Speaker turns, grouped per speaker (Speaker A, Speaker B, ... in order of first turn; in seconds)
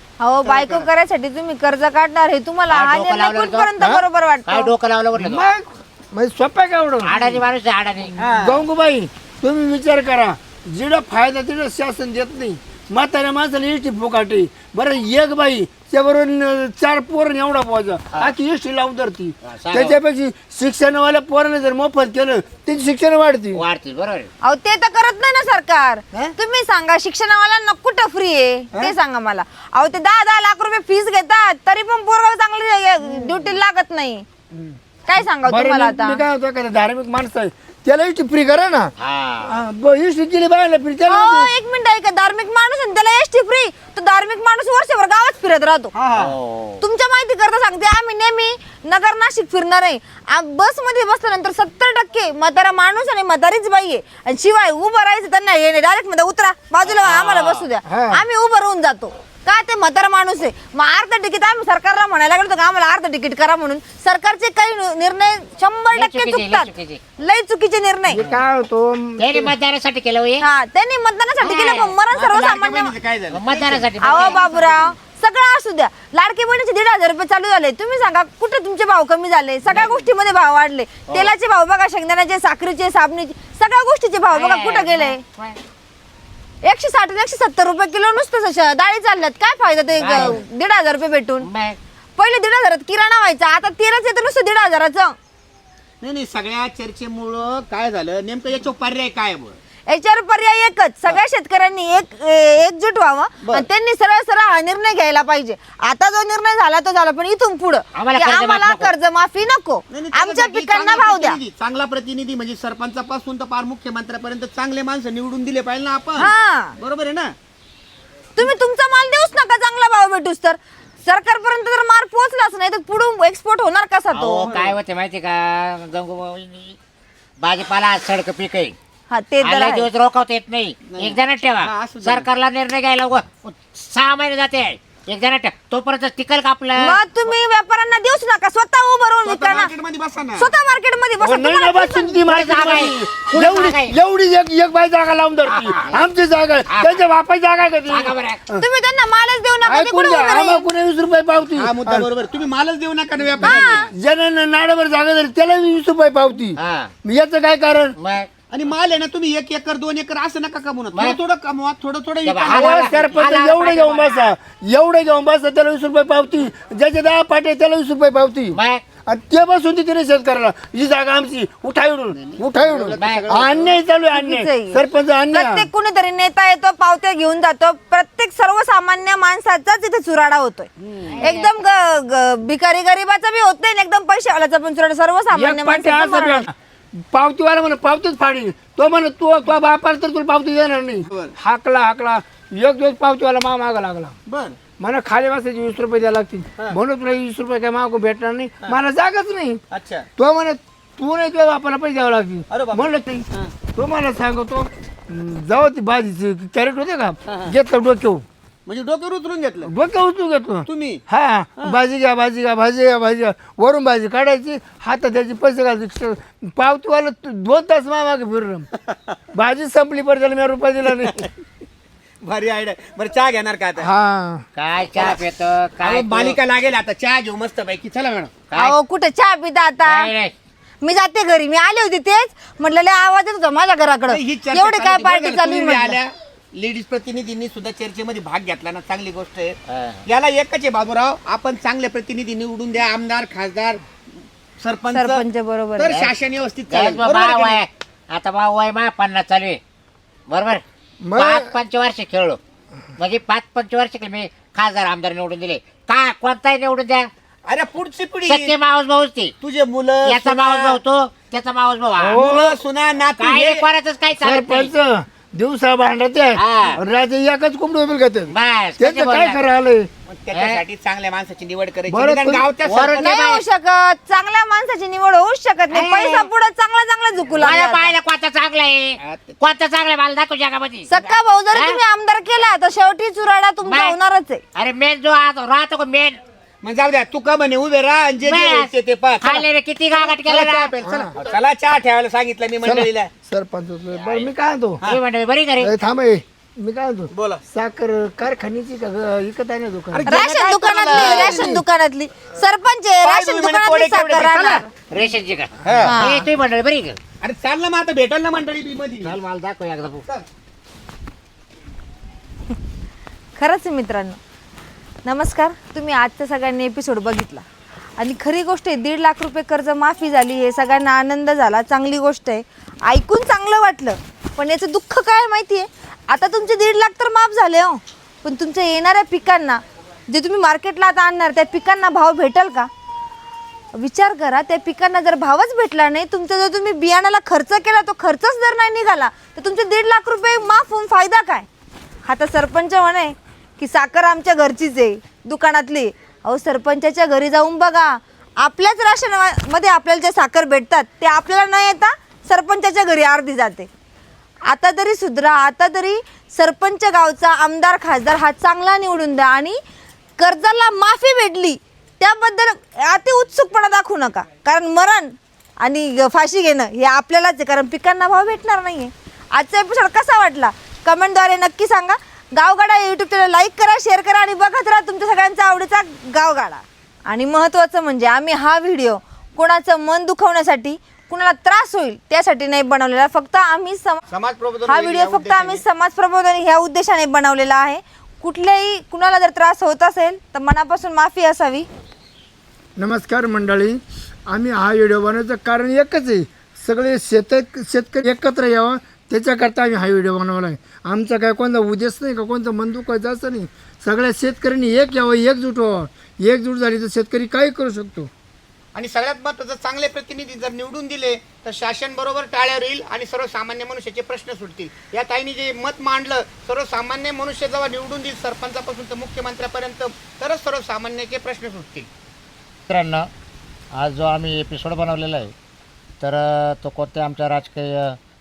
Speaker A: 0.2-4.7, 24.4-34.2, 35.0-36.2, 41.0-45.9, 46.8-68.2, 70.4-72.9, 74.0-85.2, 86.6-91.5, 92.2-95.2, 99.9-111.4, 116.2-116.8, 118.3-124.5, 129.1-129.9, 136.8-139.7, 140.4-142.2, 148.6-150.7, 153.4-153.9, 174.1-186.5, 228.5-230.1, 230.8-236.0, 244.9-245.9, 273.0-277.9, 280.9-284.4, 300.1-304.7, 305.8-306.3, 313.4-314.2, 315.0-317.4, 318.0-332.7, 333.7-341.5, 342.1-353.7, 354.5-359.6, 360.2-384.0, 384.7-391.7
Speaker B: 0.4-0.9, 8.2-8.6, 45.9-46.3, 72.1-74.4, 96.0-99.5, 109.9-117.3, 124.4-124.7, 130.9-132.3, 139.2-140.5, 151.5-153.9, 158.5-163.2, 172.1-173.8, 180.8-181.2, 194.3-194.6, 199.7-200.1, 202.5-203.5, 207.3-207.5, 208.7-209.7, 210.7-211.0, 218.9-219.2, 222.2-223.9, 224.9-225.2, 225.8-228.4, 234.1-239.6, 240.1-243.8, 244.6-245.2, 245.8-247.6, 257.5-258.5, 259.4-260.8, 262.0-263.6, 270.1-273.1, 279.0-279.4, 286.6-289.4, 290.0-293.1, 297.1-297.4, 299.9-301.5, 303.0-304.6, 305.6-306.0, 307.2-309.2, 384.1-385.6, 408.7-421.9
Speaker C: 2.7-3.7, 4.5-5.5, 7.0-8.2, 19.4-20.0, 23.5-24.3, 39.0-39.5, 46.1-46.8, 56.8-57.7, 65.9-67.0, 69.2-70.4, 71.4-71.9, 73.3-74.9, 79.7-79.9, 84.3-85.6, 90.0-90.4, 91.4-91.8, 107.9-108.9, 124.1-126.8, 127.4-128.8, 129.4-136.9, 142.2-143.9, 145.4-146.1, 146.7-147.0, 147.9-148.4, 156.6-156.9, 158.0-158.3, 160.9-161.2, 162.2-164.3, 168.5-168.8, 172.9-173.5, 181.1-181.6, 224.5-226.4, 228.5-228.8, 229.8-230.3, 239.7-240.0, 246.7-249.6, 250.3-250.6, 251.2-252.4, 253.0-257.1, 258.2-259.3, 260.0-262.3, 263.2-264.7, 266.4-266.8, 268.3-269.4, 270.3-270.6, 272.6-273.4, 275.7-276.3, 277.4-280.9, 281.5-281.8, 283.6-283.9, 284.5-286.2, 288.2-290.7, 294.8-295.7, 304.9-307.0, 309.0-310.0, 422.7-423.1, 423.7-425.3, 426.0-428.0
Speaker D: 3.8-4.0, 5.2-7.4, 8.2-23.6, 33.1-33.5, 35.4-38.9, 39.4-41.5, 57.9-58.2, 68.1-69.5, 141.2-148.7, 149.6-152.1, 153.4-157.9, 162.4-175.7, 185.3-186.5, 187.1-194.1, 194.8-199.6, 200.2-208.2, 209.6-218.7, 219.3-221.3, 223.8-224.4, 251.0-251.5, 262.0-262.6, 264.2-269.9, 271.9-272.5, 290.8-291.1, 292.6-294.8, 295.6-300.1, 300.9-301.6, 392.8-408.1